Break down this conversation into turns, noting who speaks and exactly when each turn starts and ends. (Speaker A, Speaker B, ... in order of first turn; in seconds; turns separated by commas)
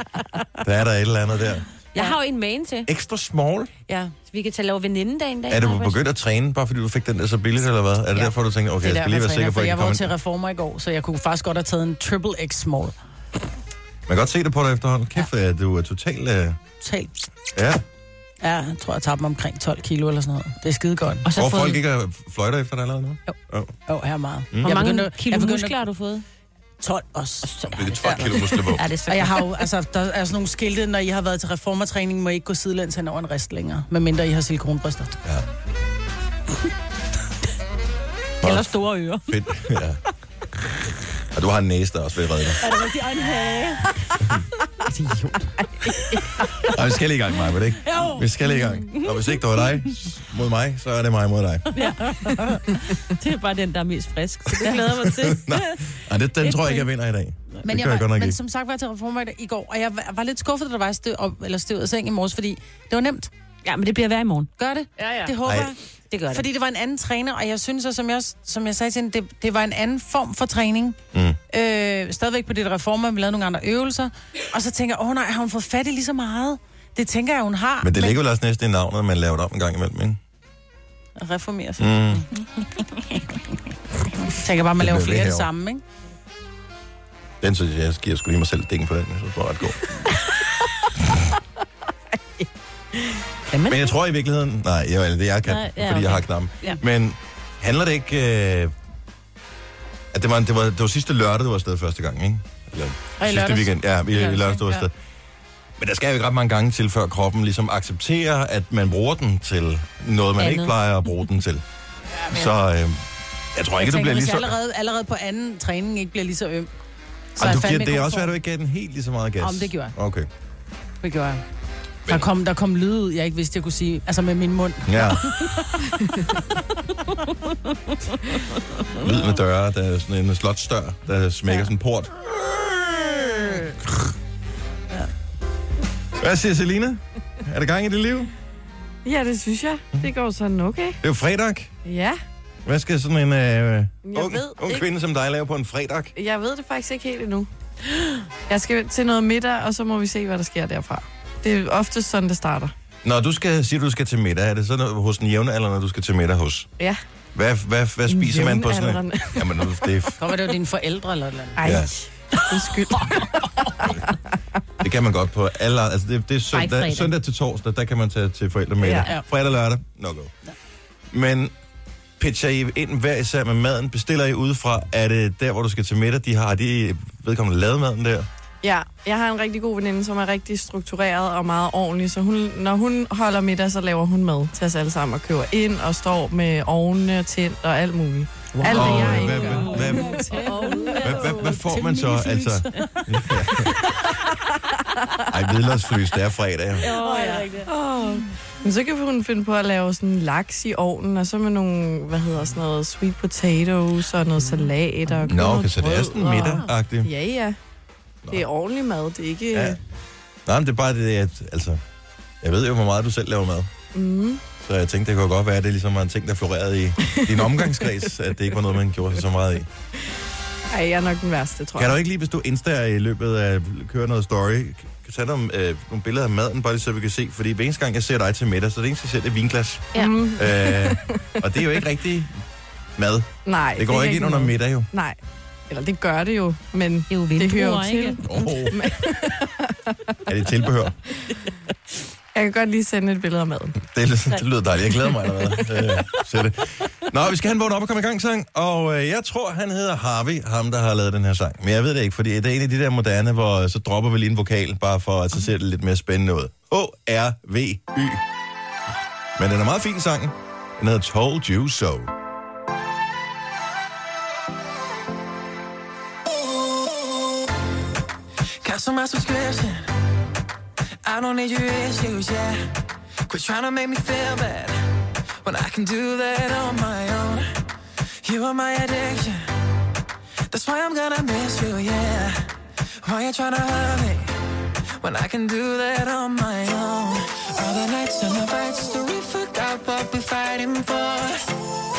Speaker A: 0.6-1.6, Speaker B: 1.9-2.9, Speaker A: 2.9-3.7, Speaker C: 3.9-4.1, Speaker B: 4.3-6.0, Speaker A: 5.5-10.1, Speaker C: 8.8-13.0, Speaker A: 14.1-16.6, Speaker C: 16.8-17.1, Speaker A: 17.6-17.8, Speaker C: 18.4-21.2, Speaker B: 21.2-21.8, Speaker A: 21.4-23.7, Speaker C: 23.3-25.8, Speaker B: 24.6-26.2, Speaker C: 26.8-28.3, Speaker B: 27.4-29.6, Speaker A: 27.7-28.9, Speaker C: 29.1-35.1, Speaker A: 38.4-38.7, Speaker B: 38.4-39.3, Speaker A: 39.3-40.0, Speaker A: 41.3-42.6, Speaker C: 42.6-44.1, Speaker C: 44.8-46.2, Speaker D: 45.8-46.4, Speaker A: 46.6-51.7, Speaker C: 47.8-48.3, Speaker B: 51.8-55.8, Speaker C: 51.8-52.6, Speaker A: 55.0-58.4, Speaker B: 56.4-56.9, Speaker C: 57.6-63.3, Speaker B: 63.6-64.5, Speaker C: 64.6-65.8, Speaker B: 65.0-65.3, Speaker A: 65.5-65.7, Speaker B: 66.1-66.5, Speaker C: 66.3-71.0, Speaker A: 71.1-71.4, Speaker C: 71.5-78.2, Speaker A: 77.8-80.2, Speaker C: 81.2-81.9, Speaker A: 81.8-82.2, Speaker C: 84.3-85.8, Speaker A: 84.8-85.5, Speaker A: 87.4-89.8, Speaker B: 93.5-93.9, Speaker A: 93.7-98.7, Speaker B: 95.5-96.8, Speaker A: 100.1-104.9, Speaker C: 103.2-104.9, Speaker A: 105.8-111.6, Speaker B: 110.4-110.7, Speaker A: 112.3-114.5, Speaker C: 113.8-116.7, Speaker C: 117.4-118.3, Speaker A: 117.4-120.3, Speaker C: 119.4-119.9, Speaker C: 121.0-121.4, Speaker C: 122.1-126.1, Speaker A: 124.9-125.3, Speaker A: 129.0-134.1, Speaker A: 136.2-138.3, Speaker D: 139.1-141.0, Speaker A: 141.0-141.7, Speaker D: 141.8-142.2, Speaker A: 142.7-146.1, Speaker D: 144.1-144.9, Speaker D: 146.2-147.5, Speaker D: 148.5-152.7, Speaker A: 153.0-156.7, Speaker A: 157.3-160.2, Speaker D: 158.1-159.8, Speaker C: 160.2-161.8, Speaker D: 161.6-164.2, Speaker A: 161.6-161.9, Speaker C: 163.1-163.7, Speaker A: 163.8-164.1, Speaker A: 164.8-170.3, Speaker B: 166.5-167.1, Speaker D: 168.8-169.1, Speaker A: 171.1-171.5, Speaker A: 172.2-178.3, Speaker D: 178.6-190.1, Speaker C: 188.5-194.1, Speaker A: 188.7-190.2, Speaker B: 189.3-191.5, Speaker A: 191.0-193.7, Speaker D: 194.4-195.3, Speaker A: 195.3-196.9, Speaker B: 196.8-197.6, Speaker C: 196.8-197.7, Speaker D: 197.7-207.6, Speaker A: 205.3-207.1, Speaker D: 208.3-209.8, Speaker A: 209.5-209.8, Speaker A: 210.5-211.8, Speaker A: 212.4-213.7, Speaker D: 213.9-214.4, Speaker A: 214.6-219.7, Speaker D: 217.0-218.1, Speaker D: 220.7-222.0, Speaker A: 221.8-232.4, Speaker D: 229.9-231.8, Speaker A: 233.0-234.9, Speaker D: 233.5-235.2, Speaker D: 235.7-240.2, Speaker B: 237.1-238.2, Speaker A: 238.2-238.9, Speaker A: 240.3-240.9, Speaker D: 242.3-243.8, Speaker A: 243.9-258.2, Speaker A: 259.4-262.1, Speaker E: 268.6-269.8, Speaker E: 271.1-272.7, Speaker E: 273.3-274.8, Speaker E: 275.4-277.5, Speaker E: 278.2-279.5, Speaker E: 280.5-282.5, Speaker E: 283.0-284.3, Speaker E: 285.0-291.4